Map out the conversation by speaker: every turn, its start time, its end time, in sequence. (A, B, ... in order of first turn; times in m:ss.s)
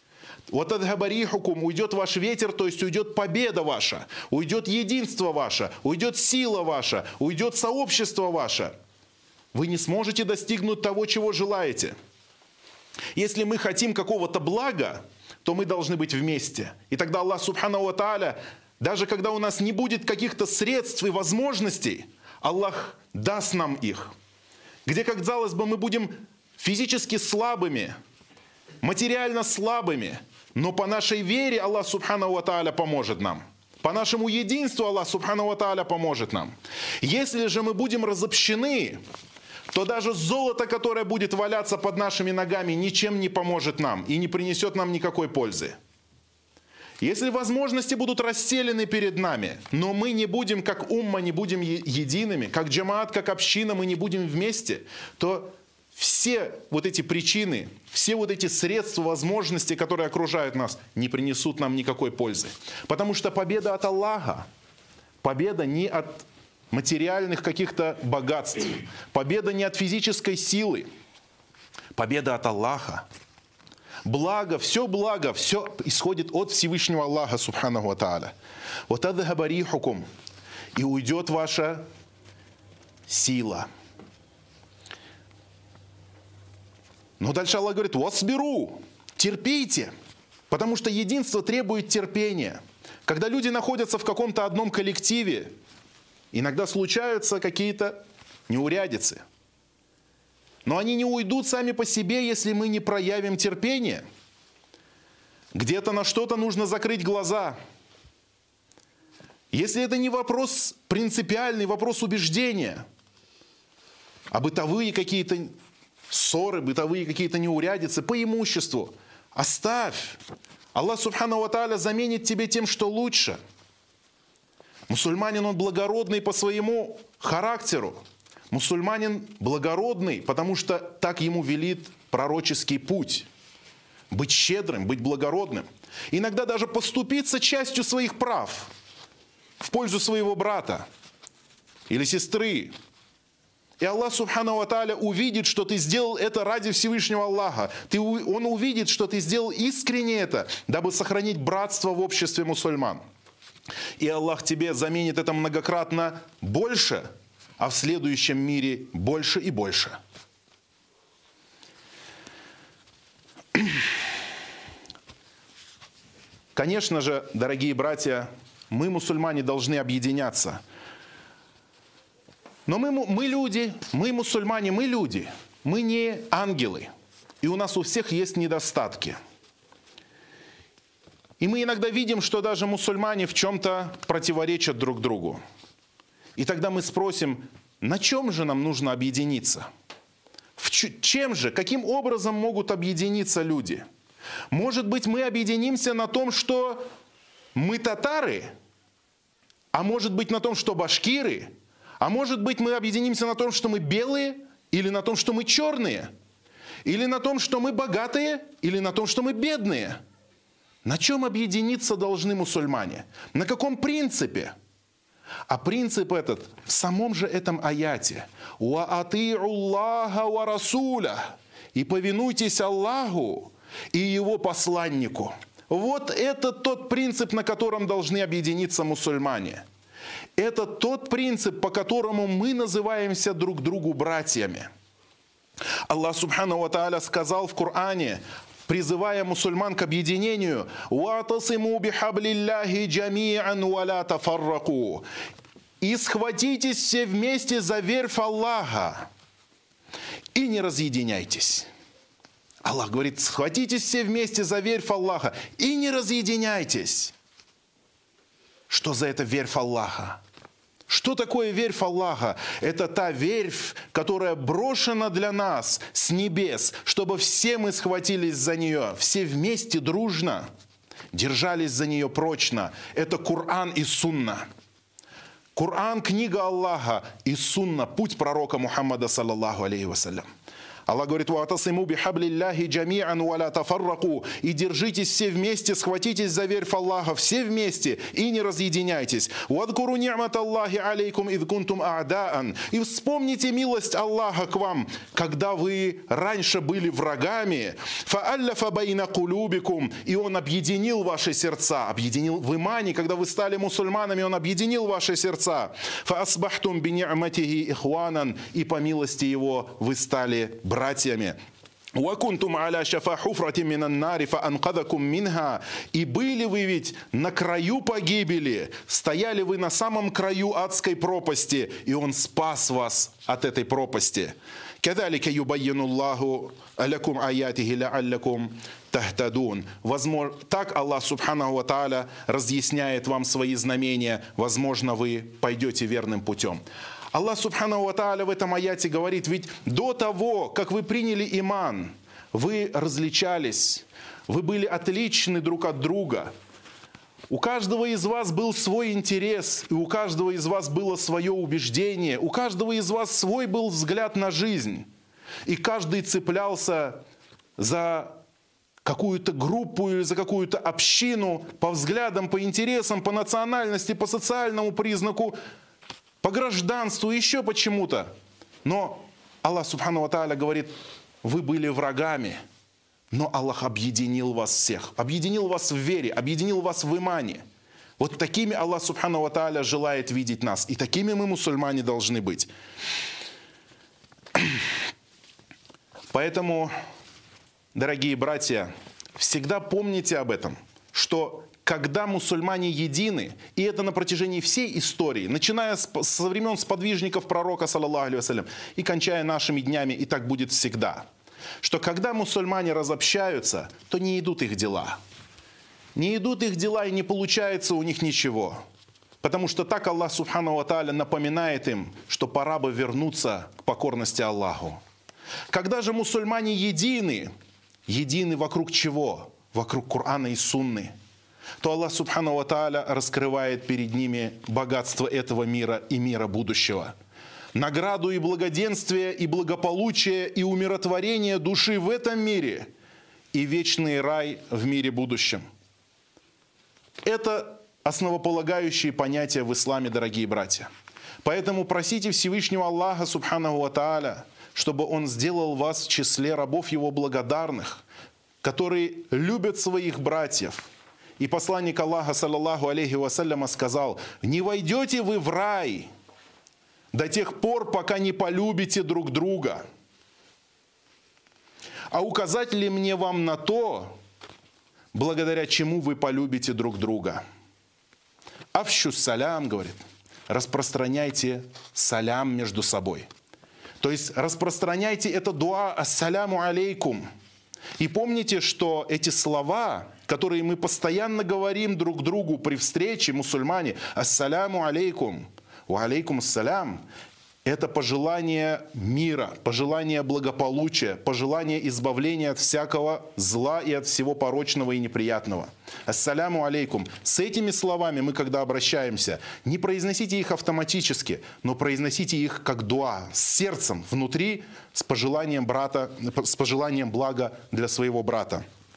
0:00.5-0:08.8 A
0:09.5-0:11.9 A
0:13.2-0:24.1 A
0:24.9-0:28.0 A
0:28.8-0:39.0 A
0:39.7-0:45.8 A
0:47.0-1:04.5 A
1:05.2-1:10.9 A
1:12.0-1:13.1 A
1:14.0-1:18.3 A
1:18.9-1:20.0 A
1:20.8-1:21.8 A
1:23.1-1:23.7 A
1:27.2-1:29.9 A
1:30.5-1:35.6 A
1:36.3-1:39.2 A
1:40.6-1:44.0 A
1:45.5-1:47.6 A
1:49.5-1:52.8 A
1:54.3-1:55.5 A
1:56.1-2:00.2 A
2:00.7-2:03.4 A
2:04.9-2:13.3 A
2:14.1-2:18.7 A
2:19.6-2:20.9 A
2:21.9-2:22.7 A
2:23.8-2:33.0 A
2:34.0-2:37.1 A
2:37.6-2:40.0 A
2:43.6-2:43.8 A
2:46.6-2:50.6 A
2:52.7-2:56.9 A
2:57.4-2:59.2 A
3:01.4-3:05.4 A
3:06.4-3:09.7 A
3:10.6-3:13.8 A
3:14.5-3:16.8 A
3:17.6-3:18.5 A
3:19.7-3:26.1 A
3:26.8-3:30.0 A
3:30.8-3:34.5 A
3:35.5-3:49.6 A
3:50.4-3:54.7 A
3:55.9-4:05.1 A
4:05.8-4:09.1 A
4:10.4-4:11.7 A
4:12.6-4:17.1 A
4:18.7-4:20.2 A
4:20.9-4:30.5 A
4:31.1-4:34.5 A
4:35.6-4:40.3 A
4:40.9-5:11.4 A
5:12.0-5:36.6 A
5:37.1-5:46.3 A
5:47.3-5:54.9 A
5:55.5-5:57.0 A
5:57.6-5:58.2 A
5:58.8-6:05.4 A
6:06.2-6:08.1 A
6:08.6-6:10.7 A
6:11.2-6:12.4 A
6:13.1-6:17.4 A
6:18.0-6:22.5 A
6:26.1-6:26.7 A
6:27.7-6:41.1 A
6:41.6-6:45.0 A
6:46.0-6:48.6 A
6:49.2-6:54.8 A
6:55.5-6:57.3 A
6:57.9-7:00.9 A
7:01.6-7:06.9 A
7:07.6-7:12.7 A
7:13.3-7:15.4 A
7:17.0-7:20.7 A
7:21.2-7:27.8 A
7:28.4-7:35.9 A
7:36.9-7:39.6 A
7:41.9-7:44.0 A
7:44.9-7:47.2 A
7:48.5-7:53.1 A
7:53.8-7:57.0 A
7:57.8-8:06.8 A
8:07.4-8:28.4 A